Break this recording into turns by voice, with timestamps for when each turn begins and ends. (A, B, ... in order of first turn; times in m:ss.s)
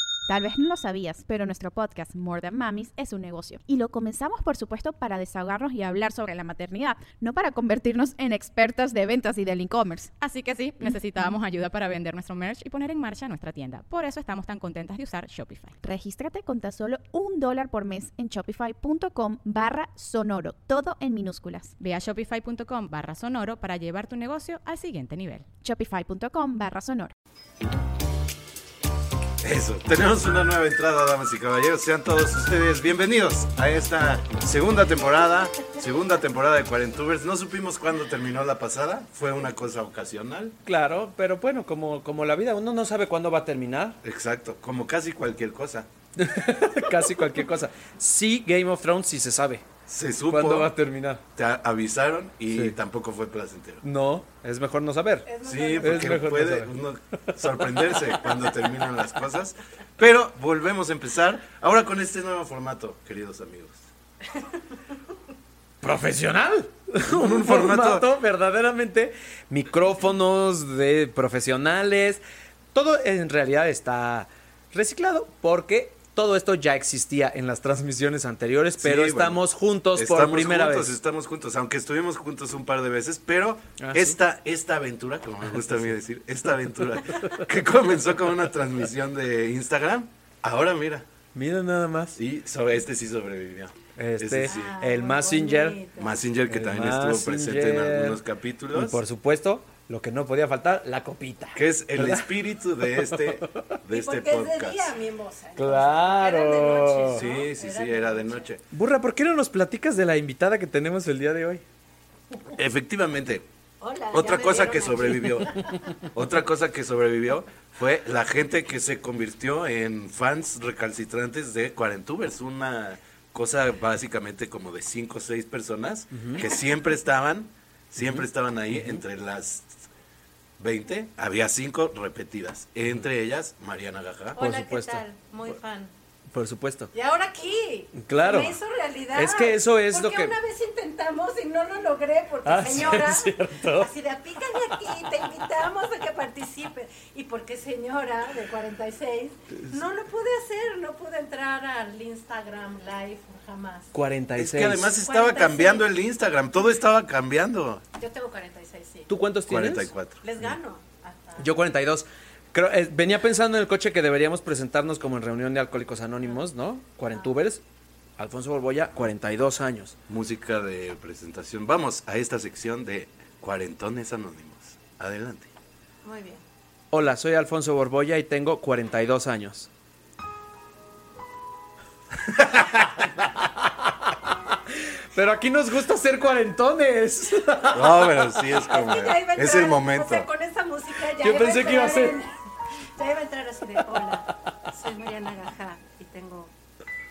0:00.3-0:10.1 A
0:10.2-0:15.8 B
0:15.8-0:21.8 A
0:21.8-0:25.5 B
0:25.6-0:27.1 A
0:29.4-0:40.6 C
0:40.7-0:44.0 D
0:44.0-0:45.9 C
0:46.2-0:49.7 D
0:49.9-0:50.7 C
0:50.3-0:51.2 D
0:51.4-0:53.8 C
0:52.5-0:52.8 D
0:53.8-0:55.3 D
0:55.2-0:56.2 E
0:55.4-1:03.9 C
0:55.8-0:56.7 D
0:57.6-0:58.6 D
1:05.8-1:12.2 D
1:07.0-1:08.1 C
1:12.7-1:20.9 D
1:18.8-1:19.4 C
1:20.0-1:31.1 C
1:23.8-1:24.2 D
1:31.3-1:32.2 D
1:32.2-1:34.7 C
1:34.0-1:35.8 D
1:34.4-1:36.2 E
1:36.0-1:39.0 C
1:36.5-1:38.2 D
1:38.7-1:42.3 D
1:41.6-1:44.9 C
1:42.9-1:43.8 D
1:43.9-1:48.5 E
1:45.6-1:47.2 D
1:47.1-1:48.6 C
1:48.7-1:51.6 D
1:52.5-1:53.4 C
1:53.8-1:55.7 E
1:54.1-2:09.8 C
2:06.1-2:06.4 D
2:10.6-2:14.4 C
2:14.4-2:15.9 E
2:14.4-2:15.0 D
2:16.3-2:16.9 D
2:16.9-2:33.9 E
2:18.0-2:18.6 D
2:19.2-2:20.4 D
2:22.4-2:23.9 D
2:33.9-2:34.9 D
2:34.4-2:37.8 C
2:35.0-2:35.9 E
2:38.0-2:39.1 E
2:39.1-2:39.9 D
2:39.5-2:40.2 C
2:40.2-2:41.5 E
2:41.4-2:47.6 D
2:48.2-2:50.0 D
2:50.1-2:55.5 C
2:56.0-2:56.4 E
2:56.9-2:59.7 D
3:03.2-3:03.5 D
3:05.1-3:08.2 D
3:07.7-3:10.3 C
3:08.4-3:12.4 E
3:11.2-3:12.2 D
3:13.0-3:16.5 E